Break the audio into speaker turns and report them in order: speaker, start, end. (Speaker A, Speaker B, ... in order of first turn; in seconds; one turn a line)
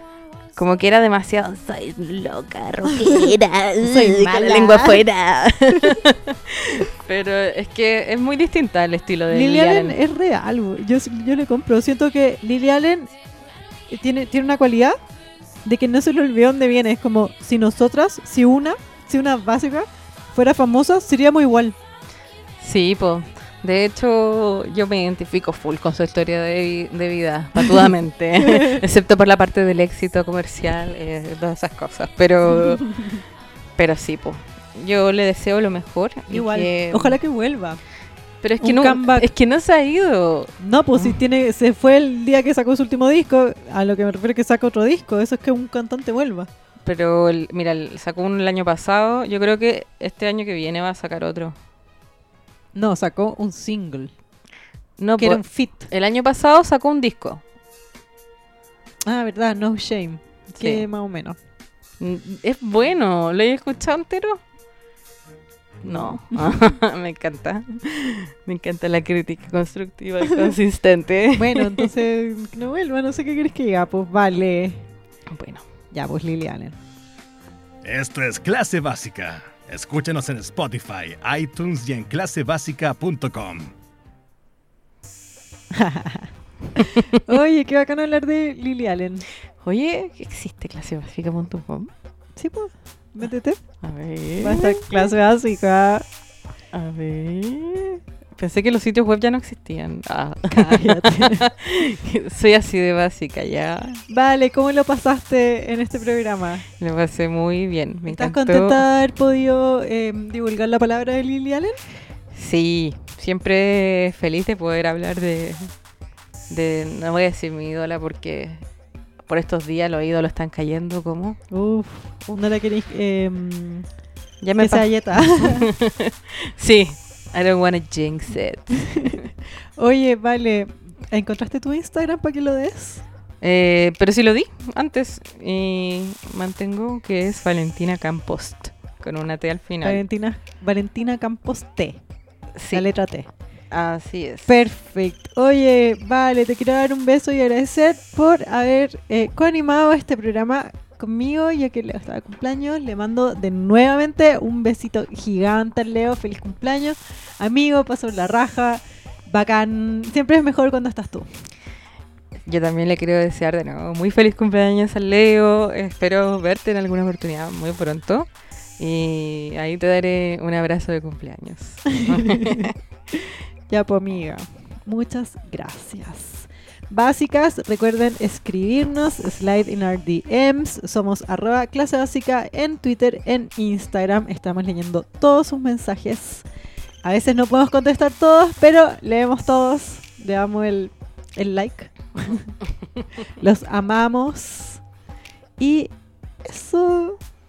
Speaker A: 0.6-10.0
Speaker B: 3.0-3.3
Speaker B: 3.8-5.0
Speaker B: 9.3-13.1
Speaker B: 13.9-15.0
Speaker B: 15.7-21.8
Speaker A: 22.6-32.9
Speaker B: 27.6-28.8
Speaker B: 32.5-33.2
Speaker A: 33.8-37.2
Speaker B: 36.3-37.8
Speaker A: 38.4-41.2
Speaker B: 38.6-39.3
Speaker B: 40.6-46.5
Speaker A: 46.9-51.6
Speaker B: 52.8-54.1
Speaker A: 55.0-57.4
Speaker B: 55.2-55.9
Speaker B: 59.1-61.4
Speaker A: 60.5-60.8
Speaker A: 62.0-64.4
Speaker A: 65.8-71.9
Speaker B: 71.4-74.8
Speaker A: 75.3-75.6
Speaker B: 75.9-76.8
Speaker C: 77.8-83.7
Speaker B: 85.7-89.2
Speaker A: 86.8-87.2
Speaker A: 89.6-91.9
Speaker B: 92.4-93.6
Speaker A: 93.8-95.0
Speaker B: 94.4-96.1
Speaker A: 96.7-104.0
Speaker B: 100.5-101.5
Speaker B: 104.1-106.7
Speaker A: 106.8-108.8
Speaker B: 108.1-111.8
Speaker A: 112.3-115.7
Speaker A: 116.5-118.6
Speaker A: 119.3-121.4
Speaker B: 121.5-123.9
Speaker A: 124.4-129.3
Speaker B: 124.6-125.7
Speaker B: 128.9-129.2
Speaker B: 129.8-133.0
Speaker A: 133.4-140.0
Speaker B: 139.8-142.0
Speaker A: 142.6-142.9
Speaker B: 142.7-143.3
Speaker A: 143.7-144.5
Speaker B: 144.5-161.3
Speaker A: 162.5-172.8
Speaker B: 172.0-172.7
Speaker B: 173.7-186.4
Speaker B: 187.0-192.6
Speaker B: 193.4-194.8
Speaker B: 195.6-195.9
Speaker B: 196.4-197.2